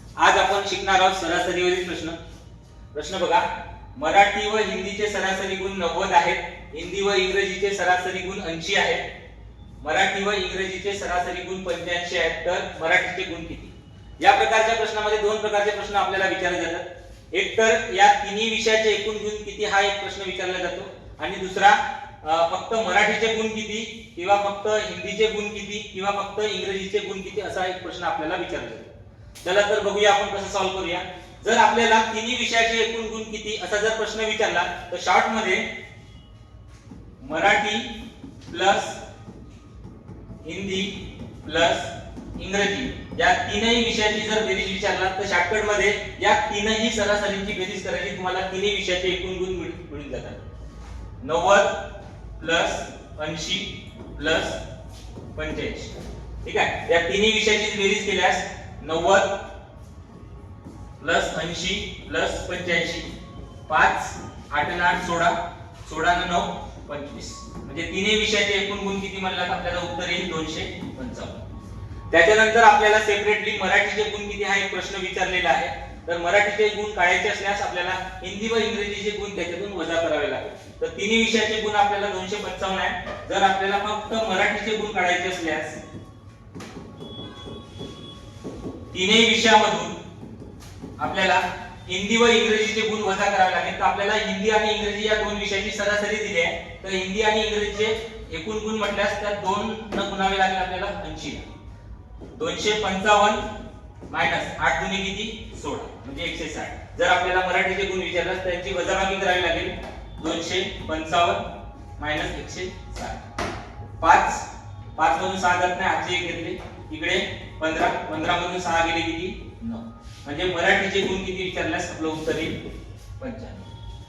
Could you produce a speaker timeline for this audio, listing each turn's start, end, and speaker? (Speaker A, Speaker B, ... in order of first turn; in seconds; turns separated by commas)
Speaker A: 0.2-2.2, Speaker A: 2.9-9.0, Speaker A: 9.8-28.9, Speaker A: 29.4-35.6, Speaker A: 37.2-37.9, Speaker A: 38.5-39.0, Speaker A: 40.4-50.4, Speaker A: 51.2-51.7, Speaker A: 52.4-54.6, Speaker A: 55.4-59.3, Speaker A: 61.0-63.1, Speaker A: 63.7-71.4, Speaker A: 72.1-85.8, Speaker A: 88.9-90.0, Speaker A: 91.0-101.5, Speaker A: 102.3-103.5, Speaker A: 104.1-111.5, Speaker A: 112.0-113.2, Speaker A: 114.0-114.5, Speaker A: 115.0-122.6, Speaker A: 123.2-123.7